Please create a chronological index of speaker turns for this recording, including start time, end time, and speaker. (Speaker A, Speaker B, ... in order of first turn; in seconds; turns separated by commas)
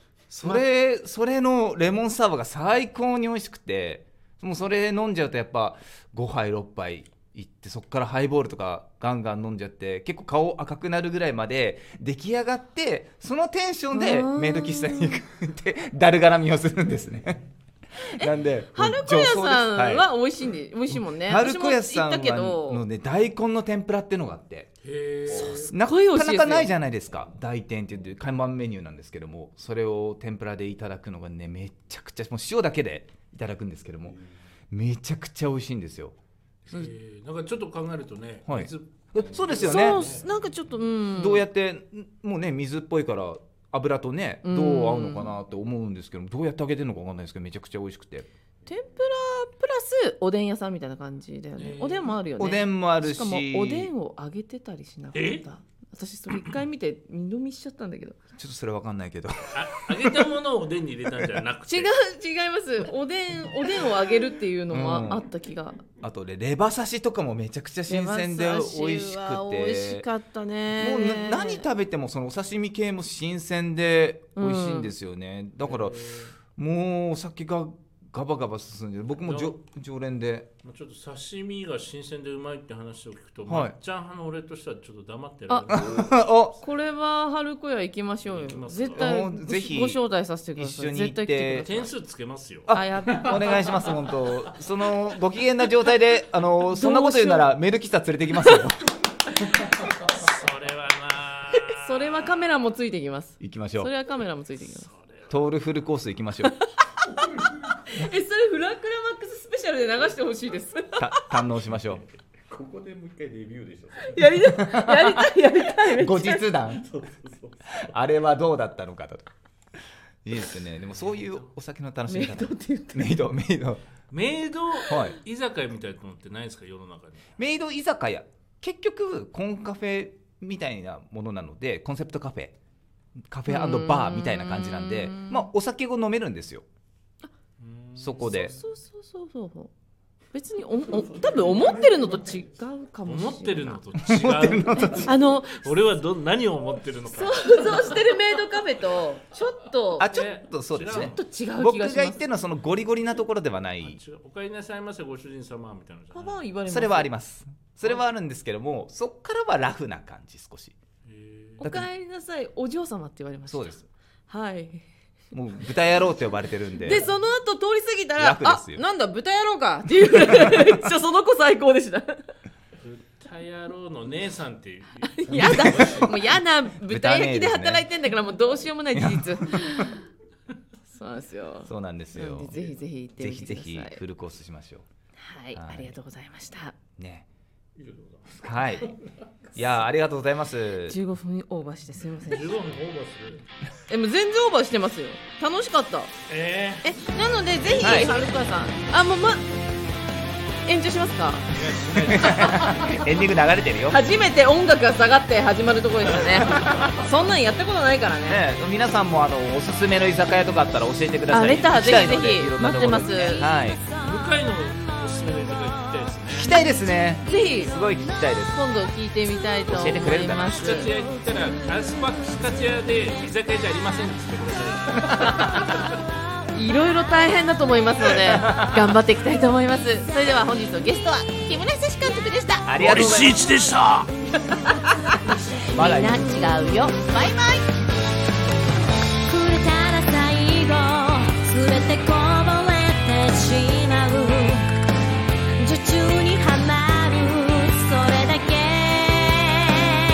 Speaker A: 0.3-0.6, Speaker B: 0.4-17.4, Speaker A: 13.9-15.2, Speaker A: 18.2-22.8, Speaker B: 18.2-20.1, Speaker B: 20.9-24.7, Speaker C: 24.8-25.7, Speaker A: 25.3-26.7, Speaker B: 25.3-36.1, Speaker C: 36.7-40.2, Speaker B: 38.5-40.0, Speaker A: 39.5-41.5, Speaker B: 41.1-48.3, Speaker A: 44.4-45.3, Speaker A: 48.6-58.2, Speaker C: 51.6-52.1, Speaker B: 52.4-53.9, Speaker C: 55.1-55.4, Speaker B: 58.4-60.1, Speaker C: 59.5-61.9, Speaker A: 61.7-65.8, Speaker B: 64.7-65.2, Speaker B: 66.0-70.0, Speaker A: 67.9-71.7, Speaker B: 70.7-76.0, Speaker A: 74.3-74.9, Speaker C: 75.6-76.3, Speaker B: 76.6-80.5, Speaker C: 79.2-79.6, Speaker C: 80.6-86.5, Speaker B: 83.4-83.8, Speaker A: 85.5-85.8, Speaker B: 85.7-86.5, Speaker A: 86.6-91.9, Speaker C: 88.2-89.0, Speaker B: 88.9-90.0, Speaker B: 90.5-91.8, Speaker C: 91.7-92.7, Speaker B: 92.7-98.9, Speaker A: 92.7-93.6, Speaker A: 96.7-97.5, Speaker C: 100.0-102.4, Speaker A: 101.8-104.9, Speaker B: 103.4-103.9, Speaker C: 104.6-105.3, Speaker B: 105.3-106.5, Speaker A: 106.4-111.4, Speaker B: 111.0-112.0, Speaker D: 112.5-114.2, Speaker A: 114.0-116.6, Speaker B: 114.4-115.2, Speaker B: 115.9-117.0, Speaker D: 116.8-117.6, Speaker B: 117.7-119.3, Speaker B: 120.2-123.8, Speaker C: 121.0-121.5, Speaker A: 122.1-123.2, Speaker C: 124.1-127.2, Speaker B: 124.9-125.2, Speaker B: 127.4-132.5, Speaker B: 133.3-136.6, Speaker A: 133.5-135.5, Speaker C: 137.6-138.4, Speaker B: 138.0-138.5, Speaker A: 138.2-139.7, Speaker A: 140.3-143.8, Speaker C: 143.0-147.9, Speaker B: 144.0-145.1, Speaker A: 144.7-145.7, Speaker A: 147.1-150.1, Speaker B: 150.0-154.0, Speaker C: 150.1-151.2, Speaker A: 150.9-152.2, Speaker C: 153.8-156.4, Speaker A: 156.1-157.1, Speaker B: 156.7-160.7, Speaker C: 161.1-161.6, Speaker A: 161.6-164.8, Speaker B: 161.6-161.9, Speaker B: 163.5-163.8, Speaker B: 165.3-167.1, Speaker A: 166.8-172.2, Speaker B: 168.2-168.8, Speaker C: 172.8-175.7, Speaker A: 175.1-180.0, Speaker B: 175.3-177.8, Speaker B: 178.9-179.8, Speaker A: 180.9-184.0, Speaker B: 181.7-182.6, Speaker B: 183.2-184.8, Speaker A: 185.2-186.8, Speaker B: 185.5-185.9, Speaker B: 187.0-187.2, Speaker C: 187.8-188.4, Speaker B: 188.4-189.0, Speaker B: 189.5-191.0, Speaker A: 190.9-192.5, Speaker C: 192.3-193.4, Speaker A: 193.9-196.1, Speaker C: 196.3-196.8, Speaker A: 196.8-199.4, Speaker C: 197.6-198.3, Speaker B: 197.8-198.1, Speaker A: 200.7-201.4, Speaker C: 201.5-202.7, Speaker B: 202.1-204.0, Speaker A: 202.2-202.9, Speaker A: 203.9-208.4, Speaker C: 206.3-206.8, Speaker B: 208.3-213.8, Speaker A: 211.3-213.5, Speaker C: 213.9-216.6, Speaker B: 216.3-218.5, Speaker A: 217.2-217.9, Speaker A: 218.4-220.9, Speaker B: 219.7-220.8, Speaker C: 220.5-225.8, Speaker B: 225.1-225.5, Speaker A: 225.4-225.6, Speaker A: 226.5-233.1, Speaker B: 228.3-228.8, Speaker B: 232.7-233.4, Speaker C: 232.8-234.1, Speaker A: 234.4-237.7, Speaker B: 235.7-236.2, Speaker D: 239.3-239.6, Speaker A: 239.3-244.6, Speaker D: 240.4-241.4, Speaker D: 242.5-243.9, Speaker A: 245.6-250.0, Speaker D: 245.9-246.5, Speaker D: 249.0-249.8